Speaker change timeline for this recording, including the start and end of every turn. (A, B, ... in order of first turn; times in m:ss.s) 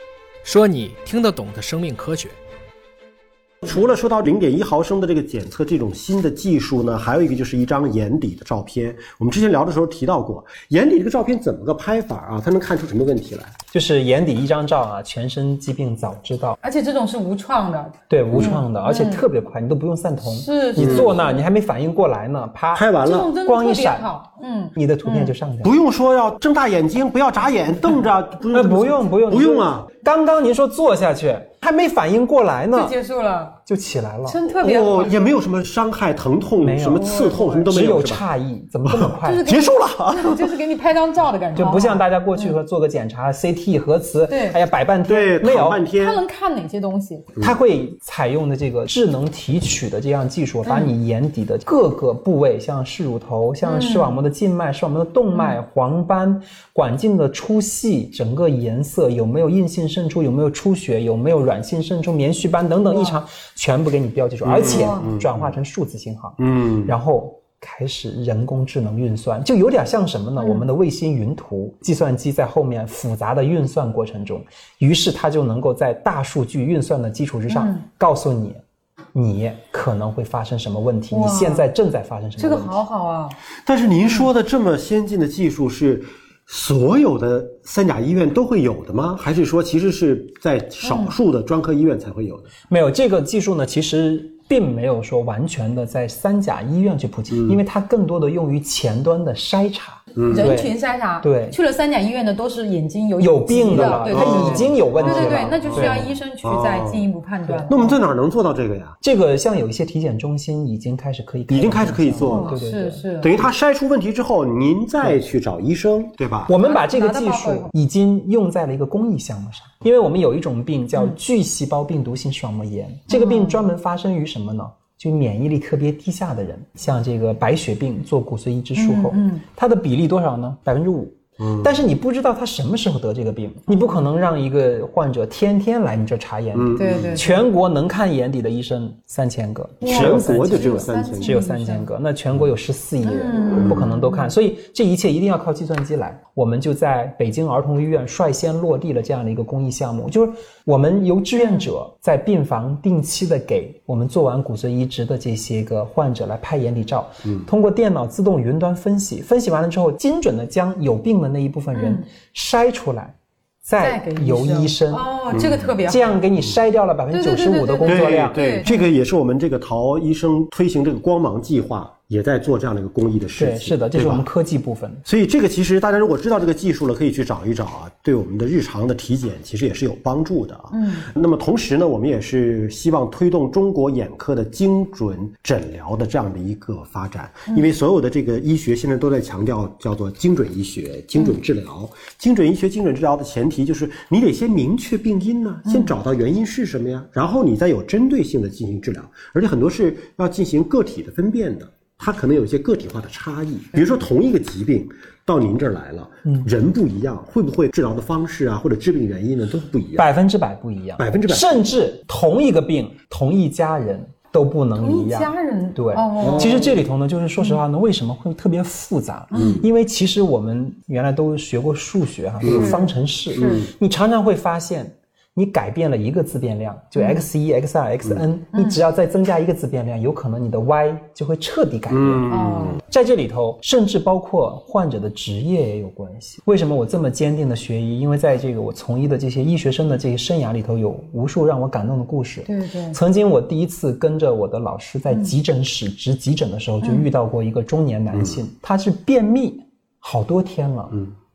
0:00.4-0:02.4 A
0:03.6-0:13.5 B
0:13.7-0:16.6 C
0:16.6-0:19.3 D
0:18.1-0:22.9 C
0:18.3-0:18.6 B
0:20.2-0:21.4 D
0:20.8-0:21.2 B
0:22.7-0:23.3 B
0:23.0-0:25.3 D
0:23.4-0:24.1 C
0:24.8-0:25.8 C
0:25.6-0:29.9 B
0:28.5-0:33.0 C
0:32.7-0:33.6 D
0:33.7-0:34.4 C
0:34.3-0:35.1 D
0:34.5-0:38.2 B
0:36.6-0:37.1 C
0:36.9-0:37.7 D
0:37.7-0:39.4 C
0:38.9-0:40.6 B
0:39.2-0:42.6 D
0:41.6-0:45.8 C
0:44.3-0:44.6 D
0:45.1-0:46.2 B
0:45.9-0:47.3 D
0:47.4-1:22.8 C
0:50.6-0:50.9 D
0:53.6-0:54.2 D
0:55.3-0:55.6 D
1:02.8-1:03.2 D
1:04.4-1:05.6 B
1:04.5-1:05.1 D
1:06.4-1:06.9 B
1:10.4-1:10.6 D
1:17.5-1:17.8 D
1:21.1-1:21.7 D
1:22.4-1:23.4 D
1:23.6-1:32.5 B
1:30.8-1:31.2 D
1:32.7-1:41.6 C
1:37.3-1:37.6 B
1:40.2-1:40.5 B
1:40.3-1:48.0 D
1:43.2-1:46.1 C
1:43.7-1:47.1 B
1:47.6-1:49.0 B
1:49.0-1:53.1 C
1:51.5-1:52.6 B
1:52.2-1:53.4 D
1:53.2-1:56.5 B
1:56.5-2:45.1 C
1:56.5-1:57.7 D
2:03.1-2:03.7 D
2:08.8-2:09.4 D
2:11.4-2:11.9 B
2:16.5-2:17.2 B
2:16.7-2:17.5 D
2:19.8-2:21.9 D
2:19.8-2:21.4 B
2:23.0-2:24.3 D
2:31.4-2:31.7 D
2:41.7-2:42.0 D
2:43.8-2:46.2 D
2:45.3-2:45.7 B
2:45.8-2:48.8 C
2:47.1-2:48.8 D
2:47.8-2:54.3 B
2:53.4-2:55.0 C
2:55.0-3:30.1 B
3:00.7-3:01.1 D
3:15.7-3:15.9 D
3:26.2-3:26.5 C
3:30.0-3:52.3 C
3:31.0-3:31.7 B
3:34.8-3:36.8 D
3:36.2-3:36.8 B
3:39.3-3:39.6 D
3:39.3-3:39.6 B
3:42.4-3:42.8 B
3:42.4-3:43.7 D
3:43.4-3:43.6 B
3:47.0-3:47.2 D
3:48.5-3:48.8 D
3:51.9-3:52.8 B
3:52.3-3:52.8 D
3:52.8-4:11.0 C
4:02.5-4:03.0 D
4:05.1-4:05.4 D
4:06.8-4:07.1 D
4:08.1-4:08.4 B